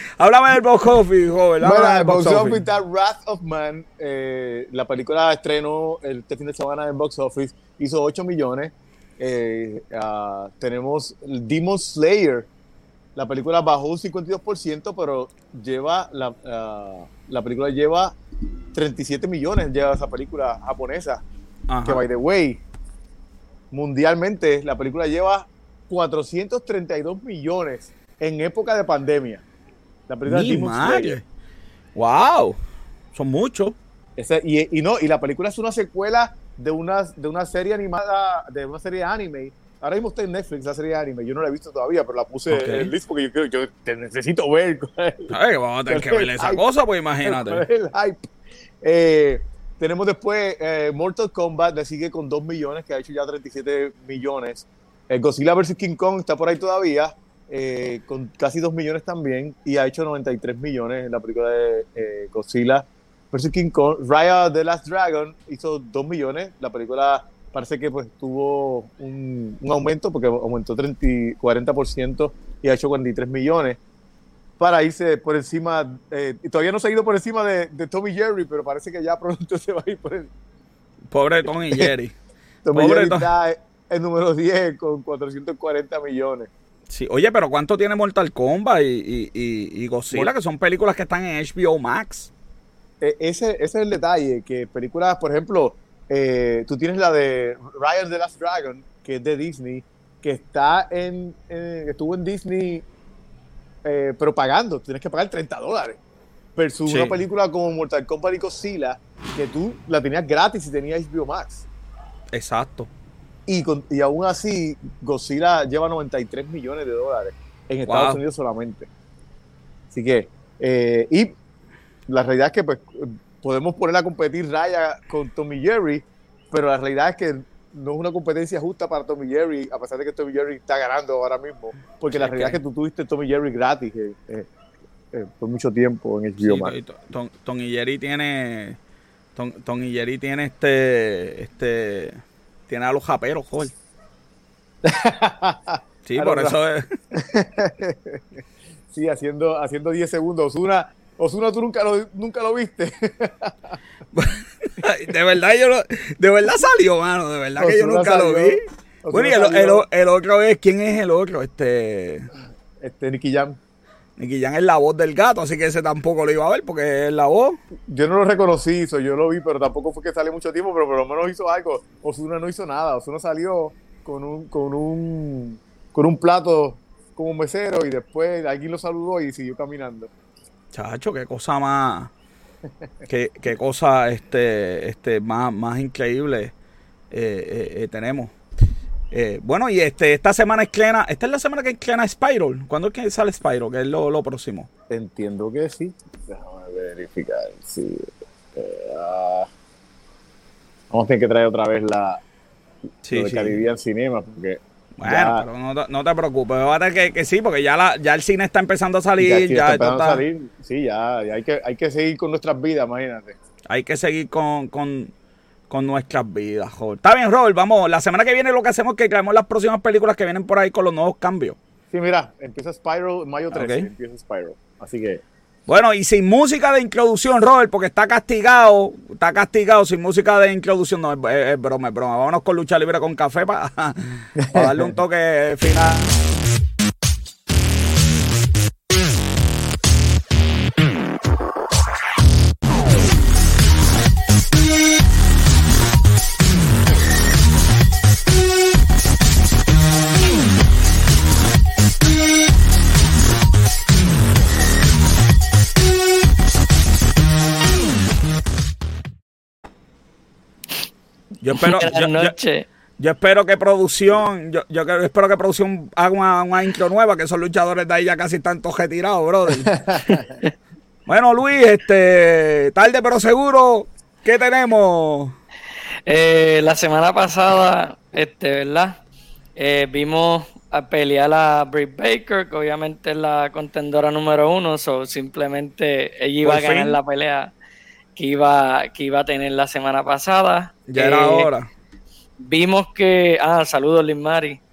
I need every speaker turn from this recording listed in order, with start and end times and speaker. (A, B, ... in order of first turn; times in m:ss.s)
0:00.2-0:02.6 A
0:01.6-0:12.5 B
0:13.2-0:18.2 B
0:18.7-0:21.2 B
0:21.7-0:22.0 A
0:21.8-0:22.6 B
0:23.7-0:29.4 B
0:30.1-0:31.2 B
0:30.2-0:31.2 A
0:32.0-0:32.6 A
0:33.1-0:33.8 A
0:34.2-0:45.3 B
0:42.5-0:42.9 A
0:45.3-0:47.6 A
0:45.9-0:46.6 B
0:47.2-0:48.3 B
0:48.8-1:13.8 B
1:14.6-1:20.3 B
1:21.1-1:22.2 A
1:21.5-1:21.9 B
1:22.6-1:26.5 B
1:22.7-1:23.3 A
1:26.9-1:32.3 A
1:33.0-1:42.9 B
1:43.8-1:46.0 B
1:46.6-1:51.6 B
1:46.9-1:47.2 A
1:52.3-1:52.9 A
1:53.5-1:58.9 B
1:57.9-1:58.2 A
1:59.9-2:01.3 B
2:02.1-2:14.5 B
2:12.1-2:12.6 A
2:15.1-2:16.7 B
2:16.4-2:18.8 A
2:19.4-2:23.7 A
2:24.8-2:26.6 B
2:26.0-2:27.0 A
2:27.1-2:33.8 B
2:34.1-2:42.3 A
2:37.6-2:39.8 B
2:42.8-2:43.6 B
2:44.2-2:47.6 A
2:47.9-3:00.1 B
3:00.7-3:02.1 A
3:03.1-3:06.5 A
3:07.1-3:08.3 A
3:09.1-3:14.7 A
3:14.9-3:19.5 B
3:20.9-3:22.2 B
3:23.0-3:23.6 A
3:23.1-3:25.5 B
3:25.0-3:30.2 A
3:29.2-3:33.4 B
3:33.7-3:35.1 A
3:35.7-3:41.6 A
3:41.9-3:45.2 B
3:43.5-3:43.9 A
3:45.7-3:56.2 A
3:54.4-3:54.9 B
4:21.4-4:22.4 A
4:21.6-4:22.6 C
4:23.0-4:29.8 A
4:29.7-4:30.3 B
4:30.1-4:30.5 C
4:31.1-4:35.4 A
4:36.1-4:39.0 C
4:39.6-4:47.5 C
4:46.4-4:47.0 A
4:48.2-4:51.5 C
4:50.9-4:51.7 A
4:52.4-4:54.6 C